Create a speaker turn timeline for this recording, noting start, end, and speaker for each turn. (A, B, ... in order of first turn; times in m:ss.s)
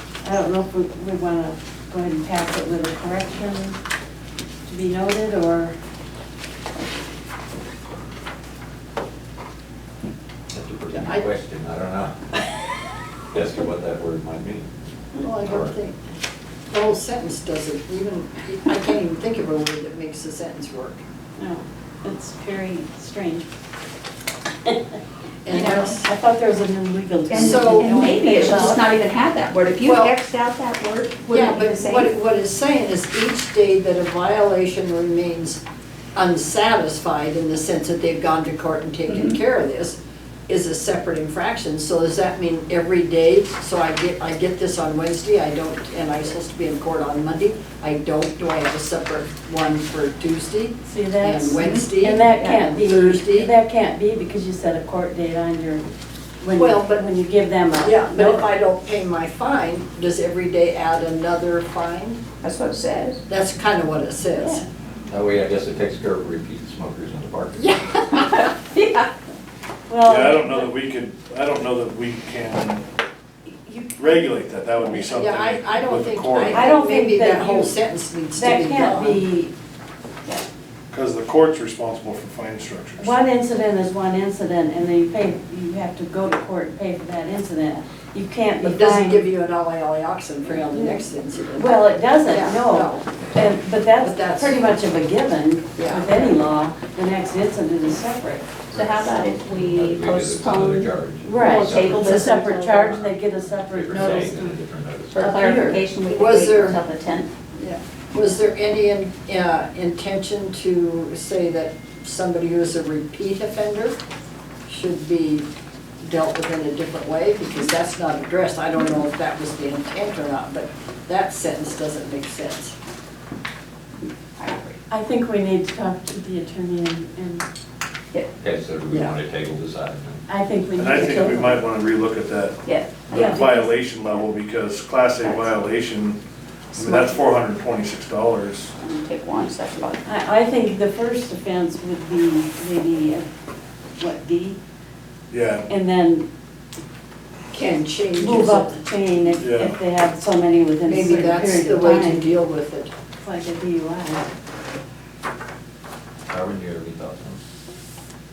0:00.2-0:03.8 A
0:04.7-0:05.8 A
0:10.5-0:12.4 B
0:10.9-0:11.2 C
0:13.3-0:14.7 B
0:15.2-0:16.0 C
0:15.4-0:15.8 B
0:16.7-0:21.0 C
0:21.4-0:23.5 A
0:25.4-0:26.1 C
0:25.5-0:25.9 D
0:26.0-0:28.9 A
0:27.3-0:32.1 D
0:27.3-0:28.6 C
0:29.8-0:30.2 C
0:31.3-0:35.6 C
0:36.2-0:53.5 C
0:39.1-0:39.4 D
0:50.8-0:55.9 A
0:51.6-0:52.6 D
0:56.4-0:57.1 C
0:56.4-0:58.5 A
0:57.8-1:02.2 C
1:02.4-1:03.2 D
1:03.3-1:04.6 C
1:04.4-1:04.6 A
1:05.1-1:07.7 B
1:07.6-1:08.5 C
1:08.1-1:09.1 D
1:09.9-1:10.7 A
1:10.0-1:12.9 E
1:13.6-1:15.1 A
1:14.0-1:16.7 E
1:15.0-1:19.2 C
1:16.5-1:17.8 A
1:18.4-1:19.5 A
1:20.9-1:23.2 E
1:23.0-1:29.2 A
1:28.6-1:33.1 C
1:31.6-1:38.5 A
1:32.3-1:32.8 D
1:34.0-1:34.8 C
1:35.8-1:36.3 C
1:38.7-1:43.0 D
1:39.6-1:42.0 B
1:41.2-1:44.6 A
1:41.9-1:42.3 C
1:43.1-1:45.3 B
1:45.1-1:47.3 D
1:45.2-1:45.8 A
1:46.0-1:46.8 C
1:47.6-1:54.0 C
1:54.7-1:55.5 C
1:56.0-2:02.8 C
2:04.4-2:04.8 D
2:04.9-2:07.5 A
2:08.4-2:10.2 B
2:10.3-2:11.7 A
2:10.8-2:16.2 E
2:12.6-2:13.4 D
2:13.1-2:13.7 A
2:15.2-2:15.5 D
2:16.7-2:18.7 E
2:18.8-2:20.1 D
2:20.0-2:23.3 A
2:24.0-2:24.6 A
2:25.3-2:25.7 E
2:25.7-2:26.3 A
2:27.5-2:28.8 C
2:28.2-2:32.3 A
2:29.3-2:29.8 E
2:30.9-2:32.9 C
2:33.2-2:34.3 A
2:36.3-2:37.4 B